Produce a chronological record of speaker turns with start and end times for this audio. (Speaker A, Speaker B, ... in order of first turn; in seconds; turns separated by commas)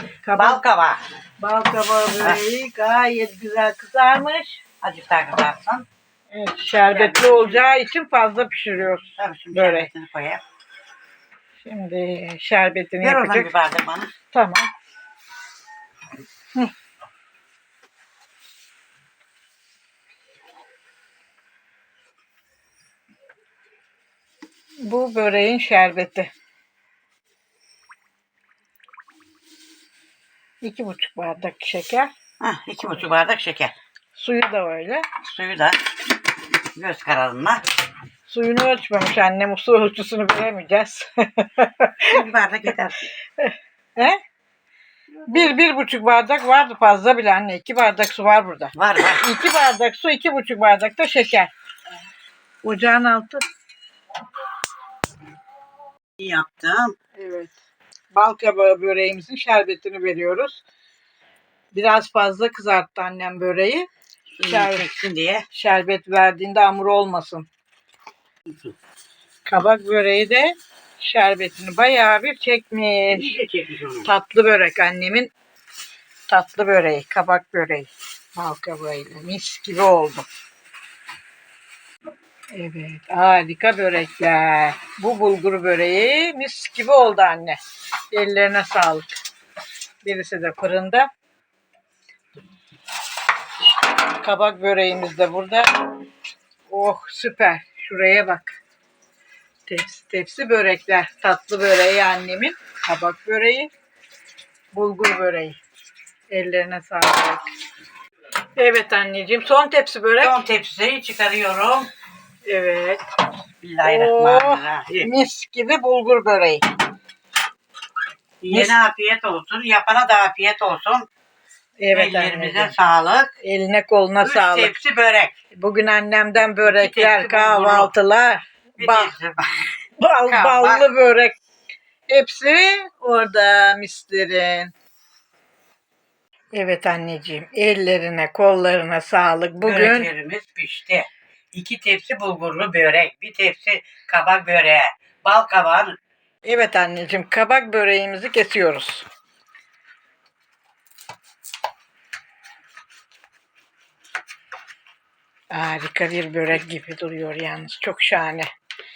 Speaker A: 0.2-0.6, Speaker B: 0.3-1.0, Speaker A: 1.4-4.6, Speaker B: 4.8-5.8, Speaker A: 6.3-9.9, Speaker B: 6.9-7.7, Speaker B: 9.2-10.4, Speaker A: 11.6-13.5, Speaker B: 13.0-14.1, Speaker A: 14.3-14.7, Speaker A: 24.8-26.3, Speaker A: 30.6-32.1, Speaker B: 32.4-33.7, Speaker A: 34.1-35.0, Speaker B: 35.2-35.8, Speaker B: 36.8-37.6, Speaker A: 38.2-42.2, Speaker B: 42.1-43.0, Speaker A: 43.4-44.2, Speaker A: 45.3-51.5, Speaker B: 48.7-49.2, Speaker A: 52.6-53.4, Speaker B: 56.2-56.9, Speaker A: 57.2-57.5, Speaker A: 58.1-60.6, Speaker A: 61.7-63.9, Speaker B: 64.4-65.4, Speaker A: 64.4-64.9, Speaker A: 65.5-67.5, Speaker B: 68.5-68.8, Speaker A: 69.5-73.3, Speaker B: 73.1-74.1, Speaker A: 74.0-75.3, Speaker A: 76.3-80.3, Speaker A: 82.5-87.6, Speaker A: 88.1-89.2, Speaker A: 90.0-91.1, Speaker A: 94.1-95.7, Speaker A: 96.7-98.5, Speaker A: 99.7-103.7, Speaker A: 104.7-105.6, Speaker A: 106.3-107.4, Speaker A: 108.5-110.4, Speaker B: 110.2-111.9, Speaker A: 112.4-113.0, Speaker B: 113.6-115.1, Speaker A: 113.8-116.6, Speaker B: 118.4-121.1, Speaker A: 118.5-118.8, Speaker A: 121.8-122.7, Speaker B: 121.9-123.3, Speaker A: 123.4-124.7, Speaker B: 124.2-125.3, Speaker A: 125.5-129.1, Speaker B: 126.6-127.9, Speaker B: 128.8-129.6, Speaker A: 130.0-131.4, Speaker B: 130.3-130.8, Speaker A: 132.1-134.7, Speaker A: 136.5-140.1, Speaker B: 139.6-146.0, Speaker A: 146.4-149.1, Speaker A: 155.5-158.5